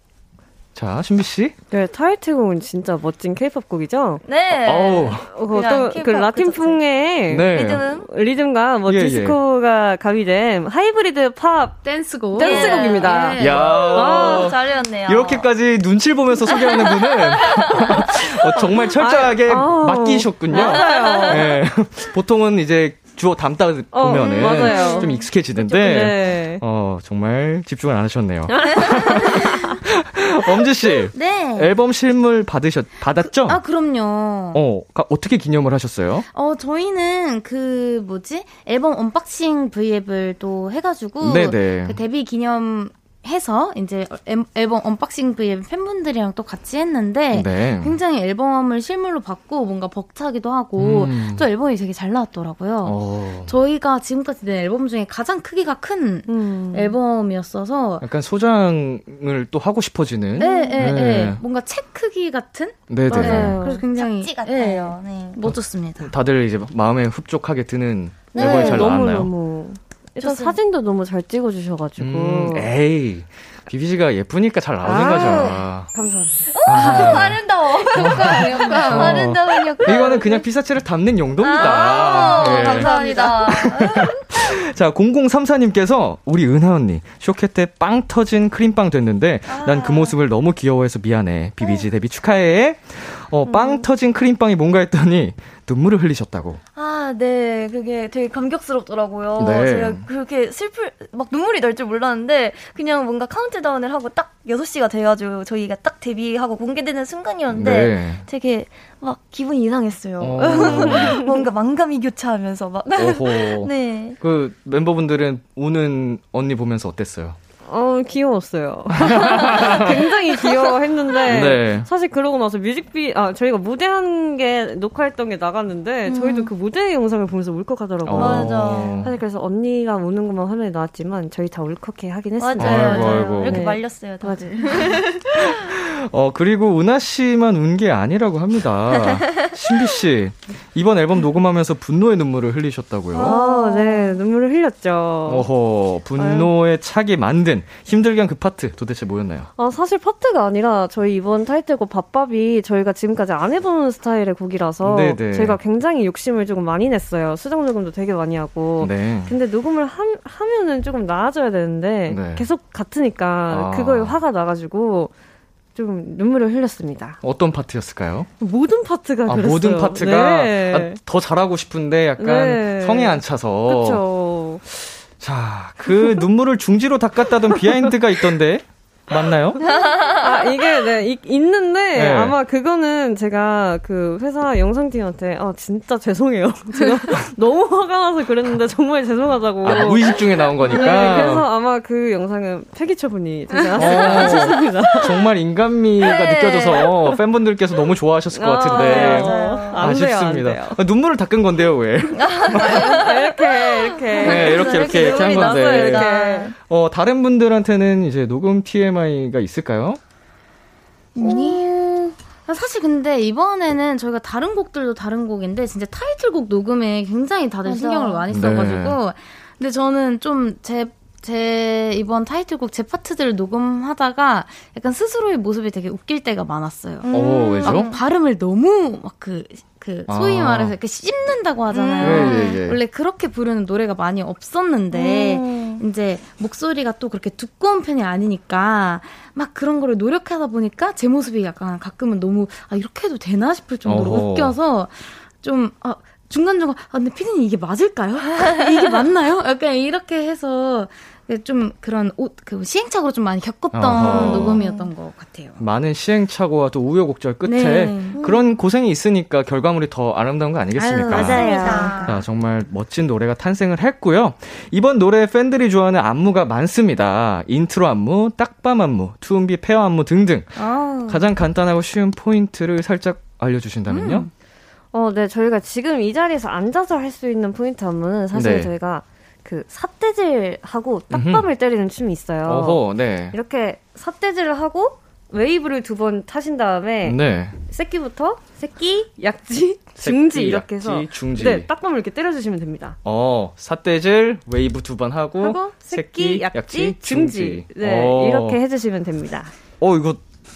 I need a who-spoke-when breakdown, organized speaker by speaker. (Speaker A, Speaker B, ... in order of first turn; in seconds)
Speaker A: 0.7-1.6, 4.6-5.3, 7.3-7.8, 8.8-9.4, 13.4-33.6, 34.5-36.2, 41.2-42.0, 47.3-48.0, 50.8-51.5, 52.8-53.5, 58.0-61.4, 62.9-63.6, 65.4-69.3, 72.0-75.9, 76.6-77.4, 77.9-82.9, 83.6-96.6, 99.4-100.0, 107.5-108.2, 110.2-111.2, 112.9-117.4, 118.9-120.0, 121.2-121.9, 128.0-129.1, 132.6-133.6, 135.4-143.4, 145.2-149.5, 154.8-155.6, 158.8-159.3, 162.1-162.4, 163.5-164.2, 167.2-168.3, 169.2-174.0, 175.1-179.6, 181.9-182.4, 189.6-191.4, 193.8-203.1, 204.2-206.1, 206.7-210.0, 218.3-219.0, 227.1-227.9, 230.1-230.7, 232.0-232.8, 243.8-244.5, 253.7-254.6, 255.6-274.3, 278.3-278.7, 281.1-281.5, 282.4-283.4, 287.0-287.6, 290.0-291.7, 293.0-298.6, 299.8-300.2
Speaker B: 1.7-4.2, 5.3-11.8, 12.3-14.5, 18.3-21.6, 23.9-25.1, 25.8-26.6, 28.5-29.5, 56.3-56.9, 63.1-63.8, 68.3-72.7, 74.8-76.5, 93.5-93.8, 110.5-111.2, 117.7-135.0, 143.2-145.5, 146.2-146.5, 149.6-165.1, 165.8-167.2, 168.4-171.0, 172.2-174.6, 175.9-176.2, 177.6-177.9, 179.6-195.2, 198.3-200.8, 202.5-206.5, 274.9-293.0, 295.4-299.5
Speaker C: 4.2-6.8, 7.5-8.1, 12.4-15.5, 16.4-17.9, 20.5-21.4, 24.1-26.1, 28.8-29.4, 60.4-60.9, 63.9-65.4, 68.3-68.9, 70.2-70.6, 74.8-75.6, 76.5-80.4, 81.4-84.2, 89.5-90.1, 96.7-114.2, 126.1-126.5, 128.2-129.0, 132.4-135.6, 143.1-144.2, 179.6-180.6, 193.8-194.4, 196.0-197.2, 198.7-199.9, 202.2-206.5, 211.1-211.7, 217.6-218.2, 227.0-228.0, 231.7-232.6, 234.9-235.8, 253.9-254.9, 258.1-258.5, 261.1-262.2
Speaker D: 11.8-13.8, 31.1-31.7, 33.2-34.6, 36.3-58.0, 60.4-66.1, 76.7-77.3, 77.8-80.0, 81.6-83.9, 211.2-227.1, 227.6-255.6, 257.4-258.2, 260.8-262.2, 270.6-271.2, 273.9-274.3